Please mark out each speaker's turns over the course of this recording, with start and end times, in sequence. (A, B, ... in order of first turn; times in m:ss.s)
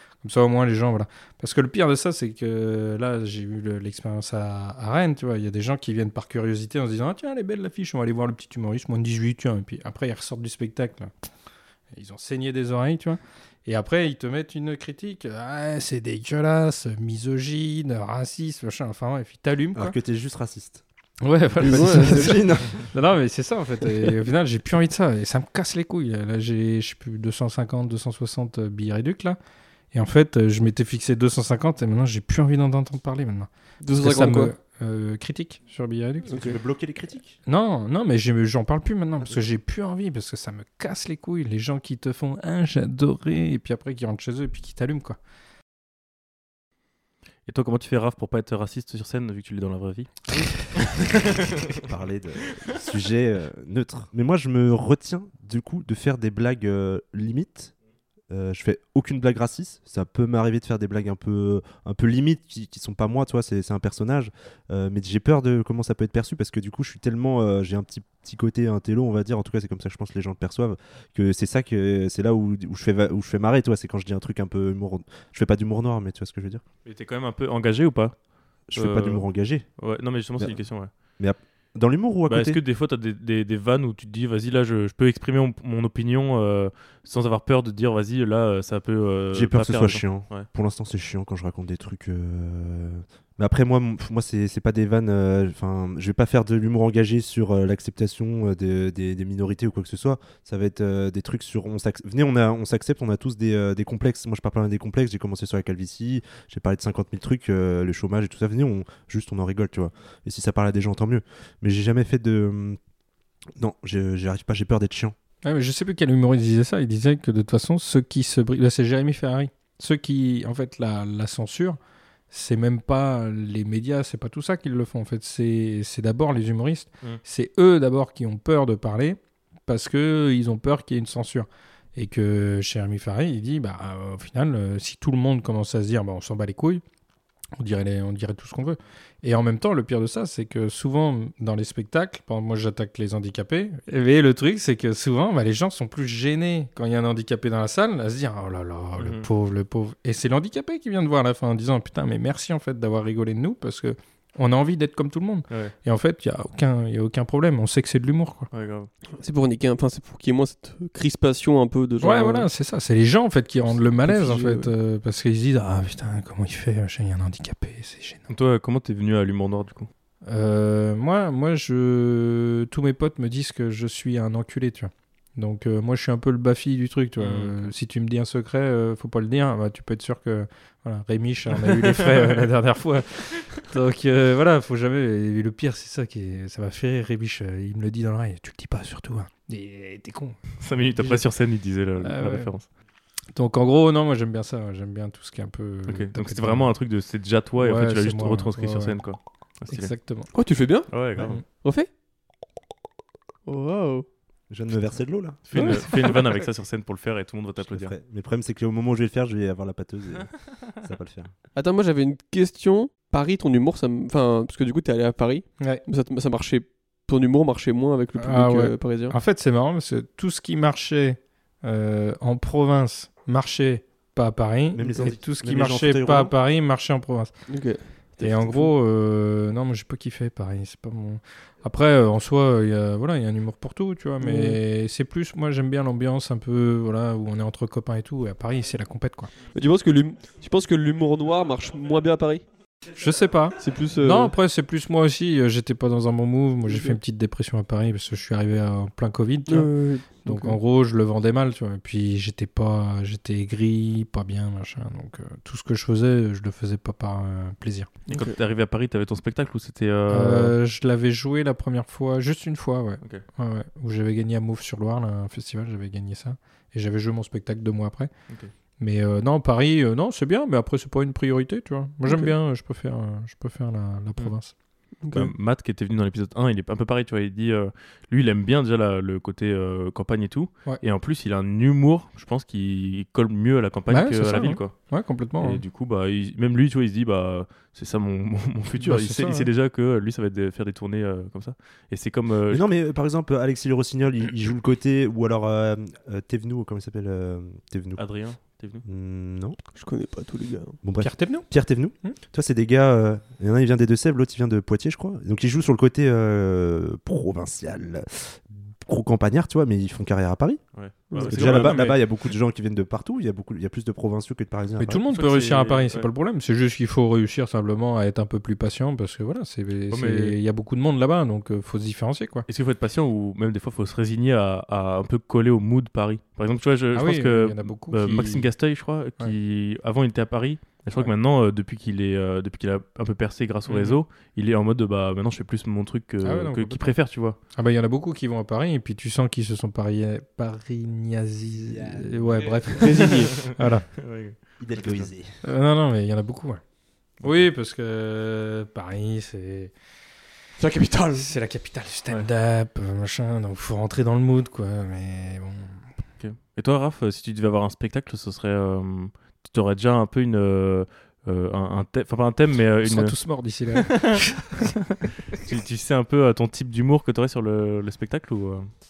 0:00.2-0:11.1 A
0:11.9-0:20.0 A
0:19.7-0:20.8 B
0:21.2-0:29.4 A
0:21.5-0:22.9 B
0:21.6-0:22.4 C
0:29.9-0:36.4 A
0:33.8-0:34.5 C
0:36.3-0:36.6 C
0:36.3-0:37.4 B
0:37.4-0:45.2 A
0:47.4-0:50.3 D
0:50.8-0:51.8 D
0:51.7-0:57.7 B
0:58.3-1:16.6 B
1:16.8-1:18.1 D
1:18.7-1:19.7 B
1:18.7-1:19.2 D
1:19.8-1:20.9 D
1:21.2-1:22.6 B
1:22.3-1:30.5 D
1:29.3-1:52.8 B
1:53.6-1:55.1 B
1:55.4-2:01.8 A
2:02.3-2:16.8 A
2:17.6-2:38.5 A
2:29.0-2:29.3 D
2:38.5-2:38.9 D
2:39.2-2:42.5 C
2:42.0-2:48.3 A
2:44.0-2:44.7 C
2:48.3-2:49.9 D
2:50.2-3:11.2 A
2:57.2-2:57.6 D
3:01.6-3:02.5 D
3:10.6-3:12.6 D
3:12.0-3:12.5 A
3:13.3-3:16.7 A
3:15.9-3:19.9 D
3:17.6-3:19.0 A
3:19.7-3:20.3 A
3:20.3-3:21.9 C
3:20.9-3:21.3 D
3:23.4-3:24.0 C
3:24.5-3:25.4 B
3:25.4-3:27.9 D
3:25.5-3:26.2 C
3:27.6-3:31.3 B
3:31.6-3:39.1 C
3:38.2-3:47.3 A
3:44.7-3:46.3 B
3:47.5-3:48.7 C
3:48.2-3:59.3 A
3:54.2-3:54.6 C
3:59.5-4:02.4 C
4:02.9-4:17.9 A
4:03.6-4:04.3 C
4:06.7-4:07.0 C
4:09.5-4:10.6 C
4:18.1-4:18.4 C
4:18.1-4:20.5 D
4:20.1-4:28.1 A
4:28.8-4:34.5 A
4:32.0-4:32.3 C
4:35.0-4:35.3 C
4:35.1-4:44.7 D
4:43.9-4:45.6 A
4:45.4-4:52.7 D
4:48.8-4:49.5 A
4:52.5-4:58.0 B
4:58.0-4:58.8 D
4:58.8-4:59.6 B
4:59.7-5:00.8 C
5:00.8-5:10.6 B
5:01.0-5:01.5 A
5:10.7-5:12.0 D
5:11.1-5:11.9 C
5:11.2-5:15.0 B
5:14.8-5:22.5 A
5:15.1-5:16.1 D
5:19.9-5:20.4 D
5:22.5-5:37.4 D
5:26.9-5:28.5 A
5:33.7-5:34.0 A
5:36.2-5:36.9 A
5:37.5-5:43.9 A
5:41.6-5:42.8 B
5:42.8-5:43.5 C
5:43.3-5:45.1 D
5:44.6-5:45.4 B
5:45.4-5:46.6 A
5:47.2-5:49.7 A
5:50.6-5:51.3 C
5:51.1-5:55.8 A
5:56.2-6:03.2 D
6:02.8-6:04.5 A
6:03.7-6:04.1 D
6:05.3-6:08.7 D